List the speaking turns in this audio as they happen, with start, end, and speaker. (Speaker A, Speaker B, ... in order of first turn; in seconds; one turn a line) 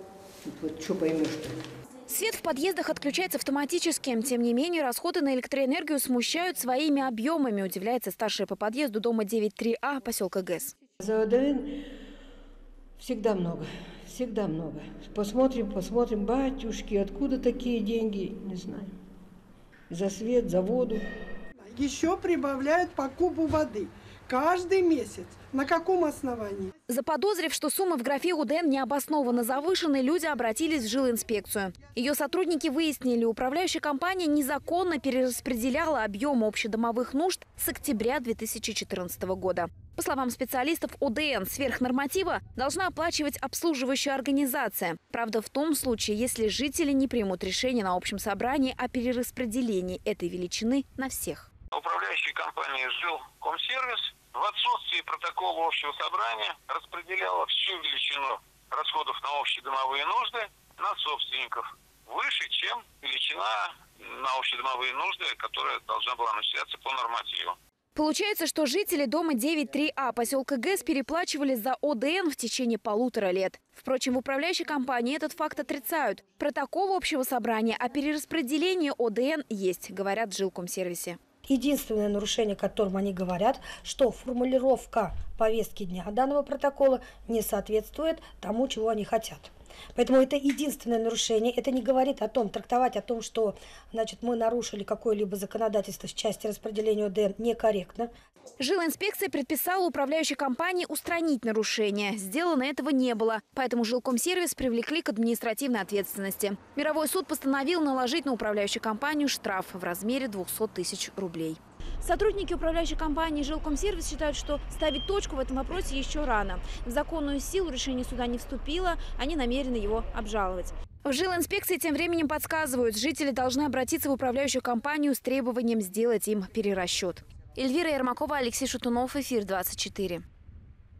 Speaker A: 0.5-1.6
Speaker B: 2.1-10.7
Speaker A: 11.0-11.8
Speaker A: 13.0-18.9
Speaker A: 19.9-21.0
Speaker C: 21.6-26.7
Speaker B: 26.9-51.5
Speaker D: 51.7-67.5
Speaker B: 68.0-81.2
Speaker E: 81.5-98.1
Speaker B: 98.6-130.2